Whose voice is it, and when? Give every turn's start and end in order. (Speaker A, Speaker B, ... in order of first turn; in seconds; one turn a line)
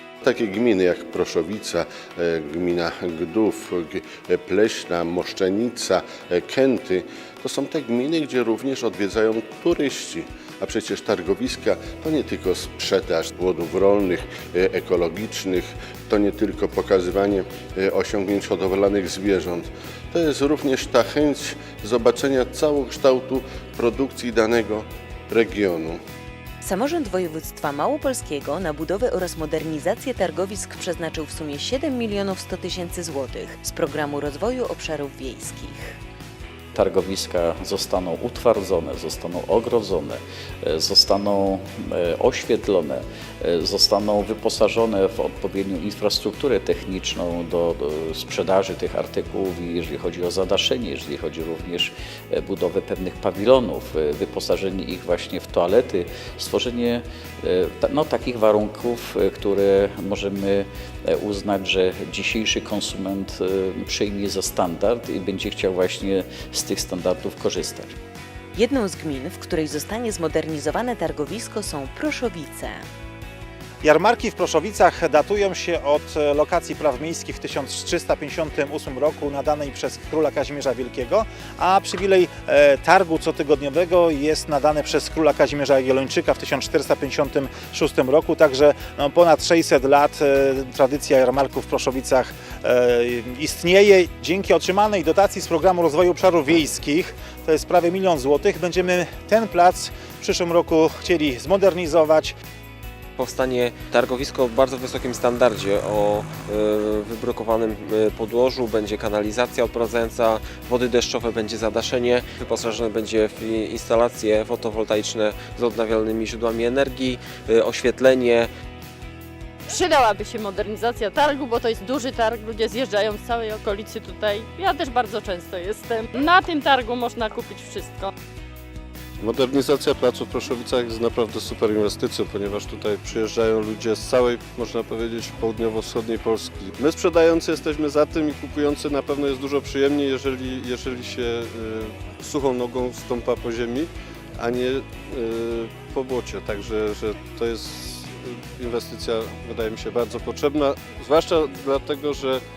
Speaker A: 0.2-26.0
Speaker B: 26.6-36.0
Speaker C: 36.7-67.9
Speaker B: 68.5-72.8
Speaker D: 73.8-102.3
Speaker E: 103.2-118.5
Speaker F: 119.7-128.1
Speaker G: 129.2-152.4